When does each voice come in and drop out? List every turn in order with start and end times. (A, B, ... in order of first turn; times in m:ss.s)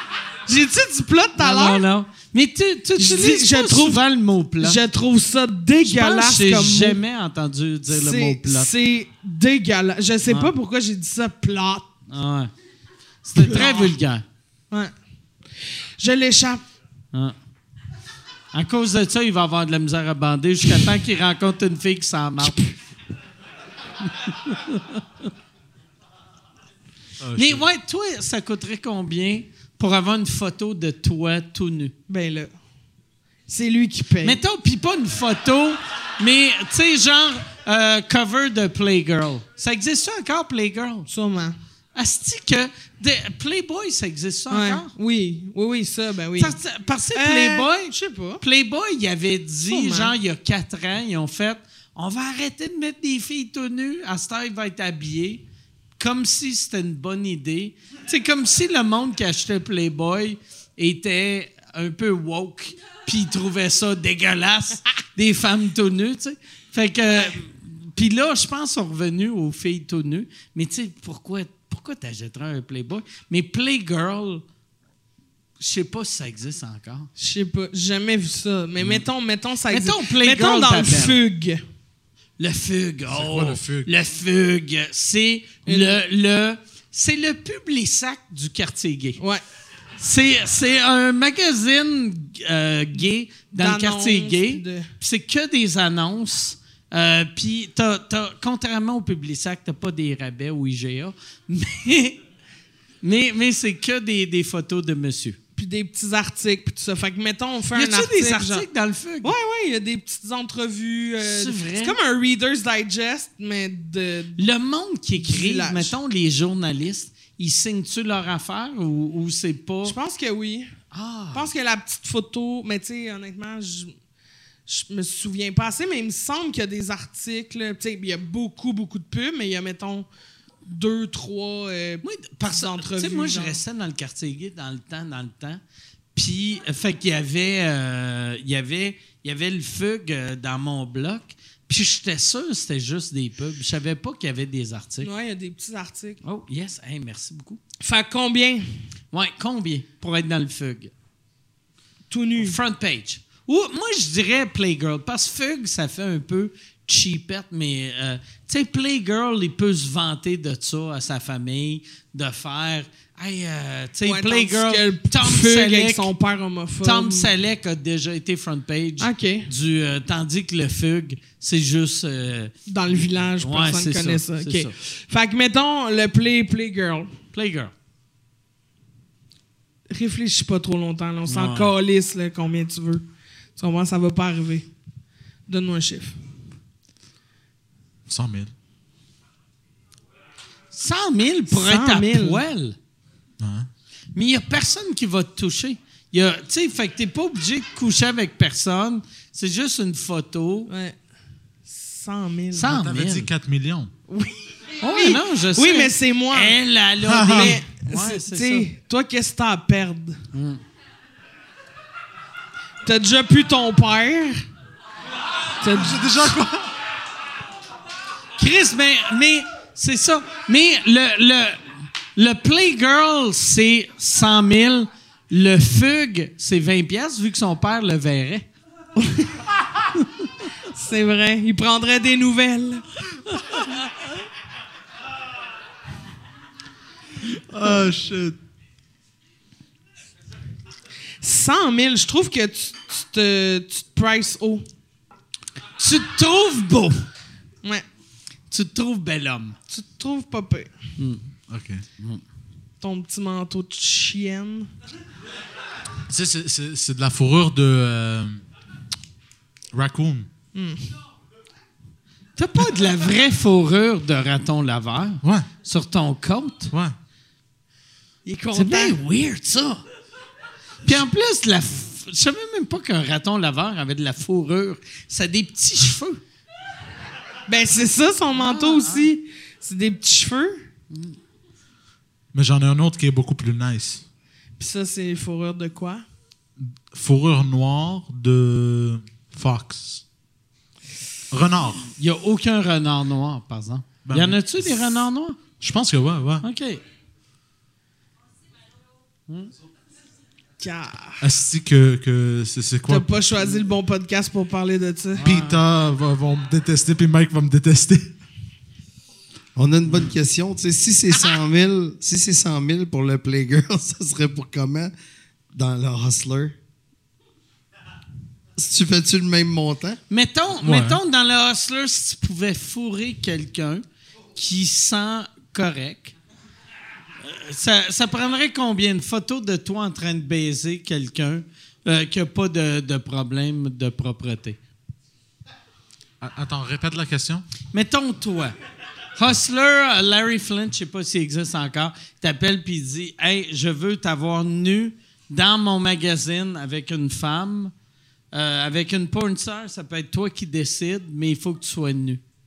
0:00.5-0:01.8 A
0:01.4-0:04.8 B
0:03.0-0:04.0 A
0:04.6-0:07.0 A
0:05.8-0:08.7 B
0:07.9-0:11.9 A
0:10.3-0:10.5 B
0:12.1-0:12.5 B
0:13.2-0:14.2 B
0:13.4-0:13.9 A
0:16.0-0:16.6 A
0:18.5-0:22.6 B
0:24.0-0:25.0 B
0:27.2-0:27.6 C
0:27.4-0:31.9 B
0:32.1-0:32.5 A
0:33.5-0:34.4 A
0:34.2-0:41.1 B
0:41.1-0:41.6 A
0:41.9-0:44.9 B
0:44.5-0:46.6 A
0:46.4-0:55.4 B
0:47.1-0:48.4 A
0:49.7-0:50.1 A
0:56.0-1:14.4 B
1:15.6-1:17.1 B
1:17.2-1:21.6 A
1:19.7-1:21.2 B
1:22.4-1:29.2 B
1:23.1-1:23.9 C
1:25.7-1:26.0 A
1:29.2-1:29.4 A
1:30.0-1:42.2 B
1:33.6-1:34.9 A
1:43.0-1:45.4 B
1:45.6-1:48.6 A
1:47.7-1:49.3 B
1:49.2-1:54.4 A
1:51.2-1:52.0 B
1:54.4-1:59.9 B
1:55.2-1:55.9 A
1:59.8-2:00.7 A
2:00.9-2:01.5 B
2:01.3-2:03.9 A
2:04.6-2:10.1 A
2:10.6-2:13.6 A
2:12.0-2:15.6 B
2:16.1-2:25.1 B
2:25.0-2:26.2 A
2:26.2-2:27.6 B
2:27.8-2:28.7 A
2:29.1-2:30.9 B
2:32.1-2:32.6 A
2:32.4-2:46.1 B
2:44.0-2:47.3 A
2:46.8-2:52.5 B
2:49.0-2:49.5 A
2:52.7-2:57.1 A
2:53.4-2:54.7 B
2:57.3-2:57.7 B
2:59.9-3:03.0 A
3:01.3-3:01.7 B
3:03.6-3:04.7 A
3:05.5-3:06.2 A
3:08.1-3:08.5 C
3:10.7-3:12.8 B
3:11.5-3:12.4 A
3:13.4-3:13.7 C
3:14.1-3:20.7 B
3:20.7-3:20.9 A
3:21.6-3:22.7 A
3:22.5-3:23.3 B
3:22.6-3:23.9 C
3:24.1-3:26.6 A
3:24.8-3:28.7 B
3:27.1-3:27.6 C
3:27.2-3:30.2 A
3:30.3-3:30.6 B
3:32.8-3:34.4 A
3:35.6-3:36.3 A
3:35.7-3:36.7 C
3:38.4-3:41.6 B
3:42.2-3:48.5 B
3:49.0-3:49.3 A
3:50.7-3:52.8 A
3:53.3-3:53.6 C
3:57.2-3:58.4 C
4:01.2-4:04.6 A
4:05.8-4:07.0 B
4:08.5-4:09.6 B
4:09.7-4:10.7 A
4:11.0-4:11.2 B
4:11.5-4:11.8 C
4:12.8-4:14.7 A
4:16.1-4:18.4 C
4:19.7-4:20.3 C
4:20.5-4:20.9 A
4:22.4-4:26.7 B
4:28.2-4:29.0 A
4:28.6-4:29.8 B
4:30.8-4:36.2 B
4:37.5-4:40.6 A
4:38.3-4:39.1 B
4:40.9-4:41.2 B
4:42.3-4:44.0 C
4:44.6-4:46.0 A
4:46.6-4:50.0 C
4:51.3-4:51.9 C
4:52.0-4:55.4 B
4:54.0-4:54.9 C
4:55.6-4:56.4 C
4:56.4-4:56.8 B
5:00.6-5:01.2 A
5:01.2-5:03.0 C
5:02.9-5:05.2 A
5:05.1-5:05.6 B
5:05.2-5:08.1 C
5:09.6-5:14.9 D
5:15.5-5:16.6 D
5:18.6-5:20.0 D
5:20.1-5:23.8 B
5:20.6-5:21.0 C
5:24.3-5:26.1 B
5:27.2-5:34.6 B
5:36.2-5:37.4 C
5:37.7-5:38.6 B
5:39.2-5:47.7 B
5:48.3-5:52.2 B